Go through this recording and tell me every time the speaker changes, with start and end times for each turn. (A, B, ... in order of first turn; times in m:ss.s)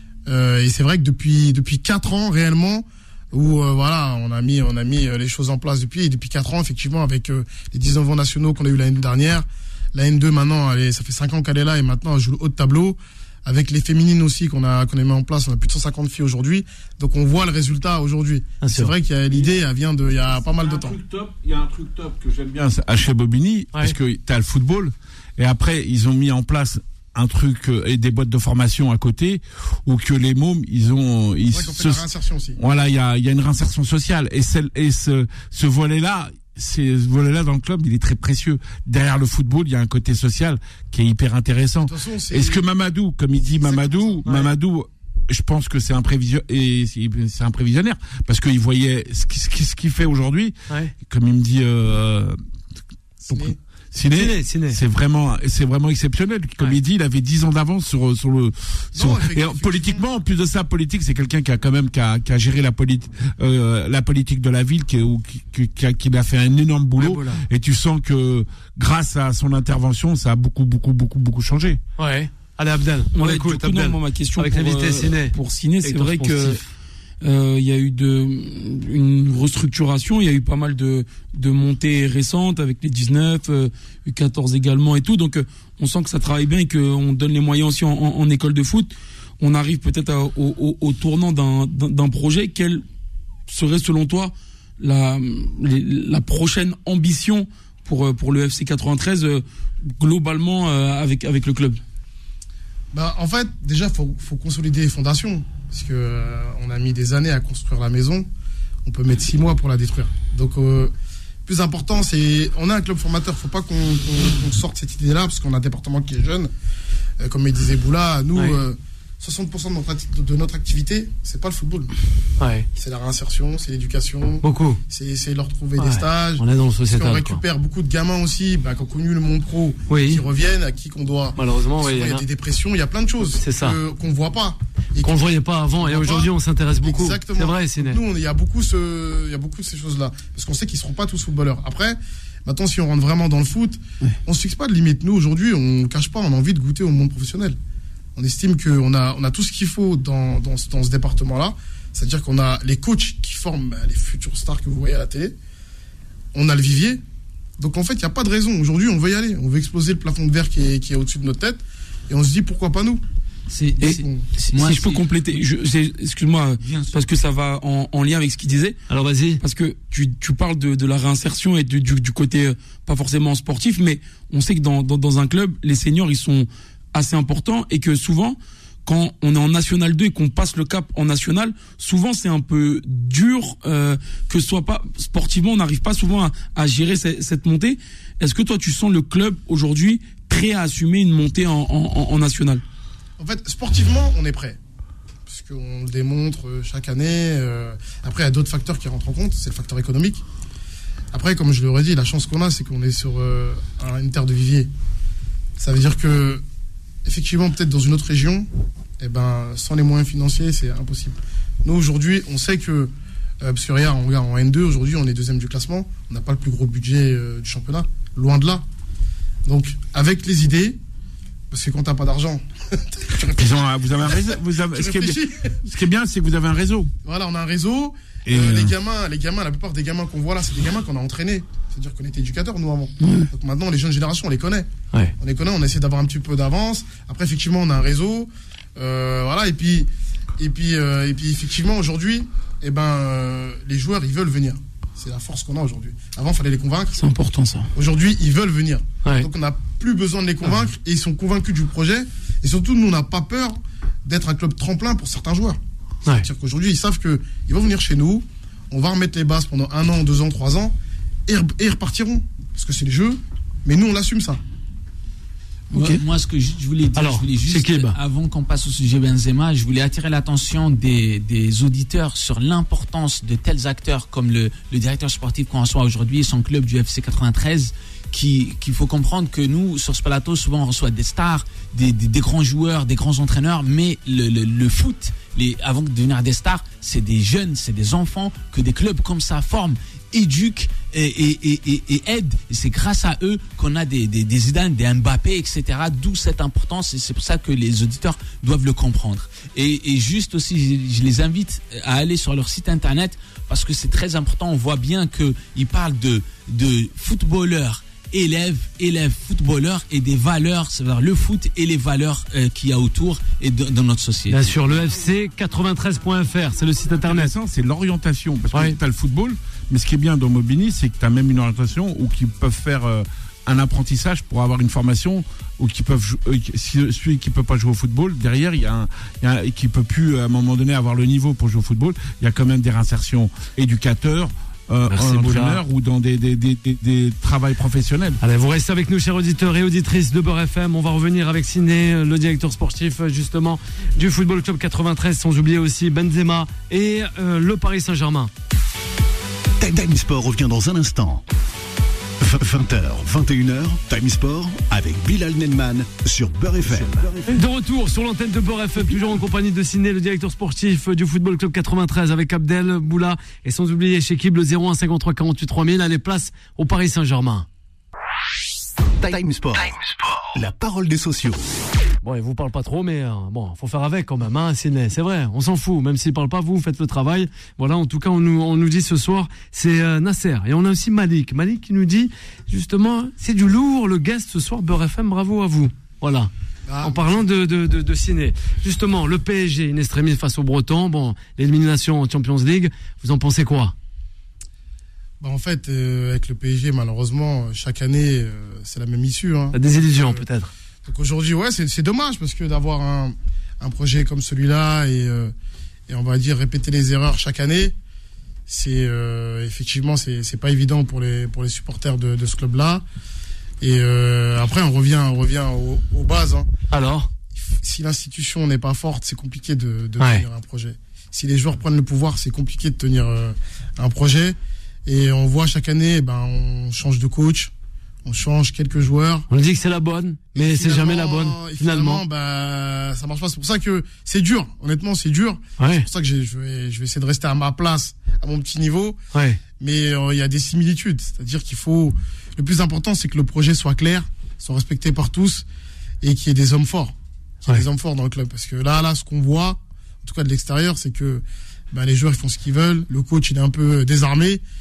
0:00.3-0:21.0 A
0:18.6-0:18.9 B
0:19.3-0:19.6 C
0:20.1-0:32.0 C
0:31.5-0:32.6 A
0:32.6-0:52.4 C
0:41.9-0:42.7 A
0:43.4-0:44.3 A
0:44.3-0:44.5 B
0:53.2-0:53.6 A
0:53.3-1:11.8 C
0:54.1-0:54.8 B
0:59.0-1:00.0 A
1:07.0-1:07.4 B
1:12.0-1:16.6 B
1:13.1-1:16.6 D
1:17.2-1:32.8 D
1:33.5-1:39.4 D
1:40.0-1:41.8 D
1:42.9-1:48.3 A
1:48.8-1:50.9 A
1:51.5-1:56.5 A
1:57.2-2:01.9 A
2:02.4-2:02.7 B
2:02.8-2:27.6 A
2:04.4-2:04.8 B
2:05.8-2:07.4 B
2:09.9-2:10.2 B
2:11.4-2:12.2 B
2:13.4-2:13.8 B
2:15.0-2:18.0 B
2:28.2-2:35.4 A
2:36.3-2:37.0 A
2:37.6-2:43.0 A
2:43.5-2:45.4 E
2:43.8-2:44.2 A
2:44.5-2:48.8 D
2:46.6-2:47.0 E
2:48.9-2:49.4 B
2:49.4-3:12.6 D
3:13.2-3:14.6 A
3:15.3-3:20.2 A
3:21.1-3:24.7 A
3:25.6-3:26.4 A
3:27.0-3:28.5 A
3:29.0-3:38.6 A
3:39.5-3:40.8 A
3:41.5-3:45.6 A
3:43.4-3:46.9 C
3:47.0-4:07.0 A
3:48.3-3:48.7 C
3:53.0-3:53.3 D
4:07.1-4:07.5 D
4:07.8-4:20.8 A
4:21.3-4:24.4 A
4:25.7-5:14.5 E
4:25.7-4:26.0 B
4:27.0-4:28.0 B
5:14.3-5:17.3 B
5:16.9-5:38.2 C
5:34.9-5:35.6 B
5:38.2-5:48.3 B
5:49.6-5:51.2 F
5:52.2-5:57.4 F
5:57.3-6:07.5 B
6:09.0-6:09.7 F
6:10.4-6:11.4 F
6:12.0-6:26.3 B
6:26.7-6:27.2 A
6:26.8-6:33.7 B
6:35.2-6:40.3 A
6:39.5-6:40.5 B
6:40.8-6:45.3 A
6:45.9-6:47.8 A
6:48.5-6:52.8 A
6:53.6-6:56.5 A
6:56.7-6:57.1 B
6:57.3-7:07.5 A
7:00.0-7:00.2 B
7:08.0-7:09.3 A
7:09.3-7:12.0 B
7:10.4-7:19.0 A
7:15.6-7:15.9 B
7:19.1-7:19.4 B
7:19.6-7:25.4 A
7:26.0-7:34.4 A